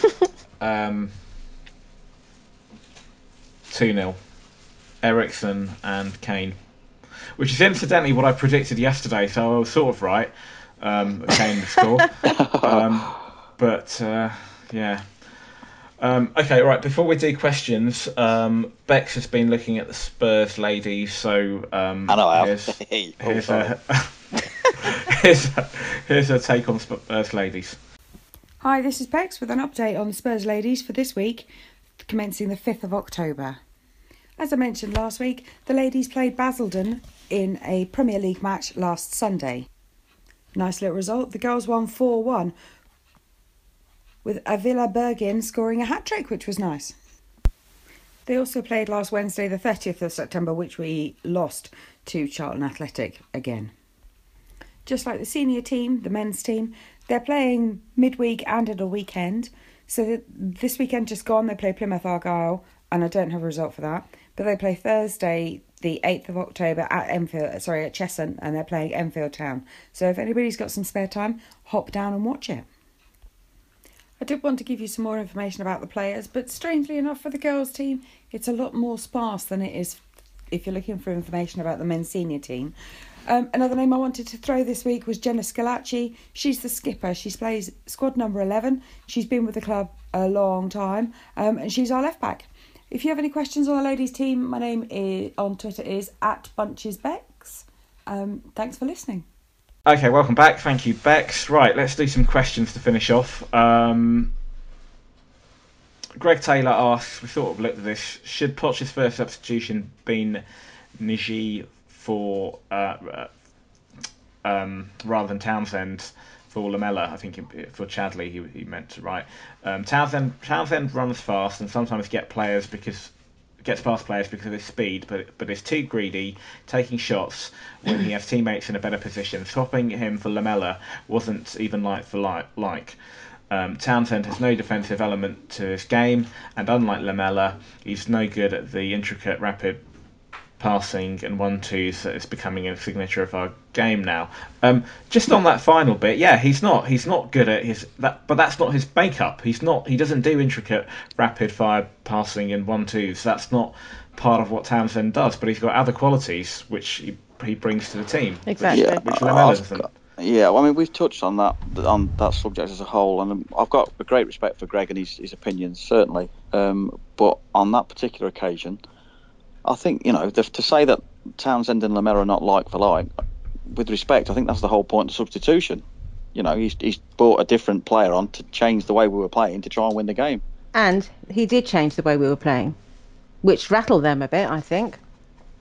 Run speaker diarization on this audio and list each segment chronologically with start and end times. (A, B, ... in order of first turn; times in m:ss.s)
0:00.6-0:01.1 A
0:03.7-0:04.2 A
0:05.0-0:06.6 A
0:07.4-0:15.1 A
0:12.2-0:13.1 B
0:16.0-0:27.8 A
0:22.1-0:23.8 B
0:28.6-0:31.5 C
0:32.0-0:33.6 C
0:34.4-0:39.7 C
0:40.5-0:42.5 C
0:44.2-0:46.9 C
0:48.2-0:53.7 C
0:54.8-1:12.7 C
1:14.2-1:22.7 C
1:23.2-1:39.2 C
1:39.8-1:44.3 A
1:46.2-1:50.4 A
1:51.0-1:53.3 A
1:54.4-2:13.0 A
2:13.5-2:19.8 A
2:20.6-2:39.9 A
2:38.5-2:39.0 D
2:38.7-2:48.8 B
2:49.6-2:53.1 B
2:53.7-2:55.8 B
2:56.3-3:00.4 B
3:00.7-3:02.7 D
3:03.4-3:05.0 D